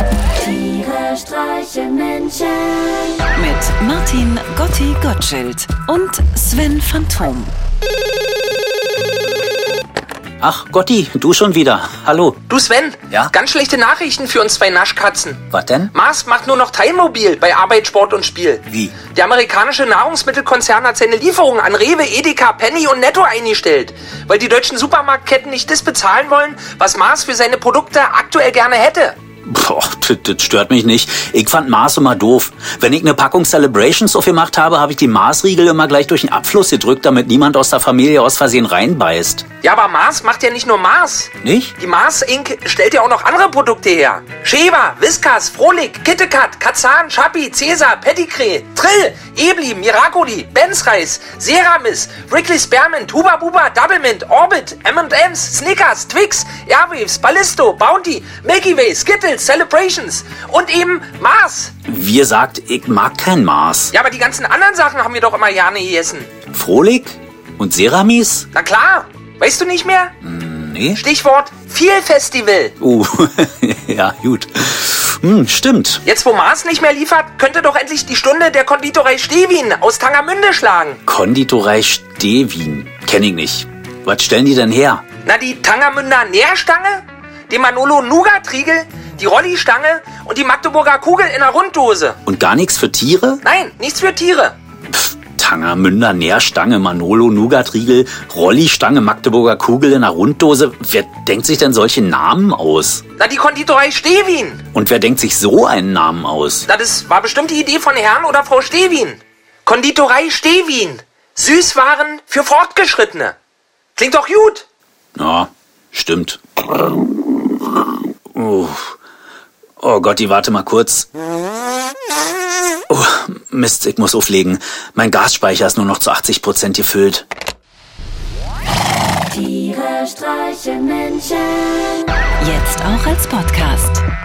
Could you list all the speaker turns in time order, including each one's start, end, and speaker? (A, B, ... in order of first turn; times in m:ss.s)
0:00.4-0:02.7 A
0:03.2-0:07.5 B
0:10.4-0:12.4 C
0:12.5-0:29.2 D
0:15.5-0:15.9 C
0:29.5-0:39.4 C
0:39.6-1:01.7 D
0:41.4-0:41.8 C
1:01.9-1:03.9 C
1:03.9-1:06.3 D
1:06.5-1:08.5 C
1:08.5-1:10.1 D
1:10.2-1:11.0 C
1:11.0-1:12.8 D
1:12.8-1:16.0 C
1:16.0-1:21.0 D
1:21.1-1:25.0 C
1:25.2-1:32.2 D
1:32.3-1:33.4 C
1:33.4-1:34.6 D
1:34.9-1:43.0 C
1:43.2-1:44.6 D
1:44.7-1:46.7 C
1:46.7-1:53.4 D
1:54.0-1:54.7 D
1:55.2-1:56.4 C
1:58.3-1:59.0 C
1:59.8-2:01.1 C
2:02.9-2:07.2 C
2:09.4-2:11.7 A
2:12.4-2:14.0 B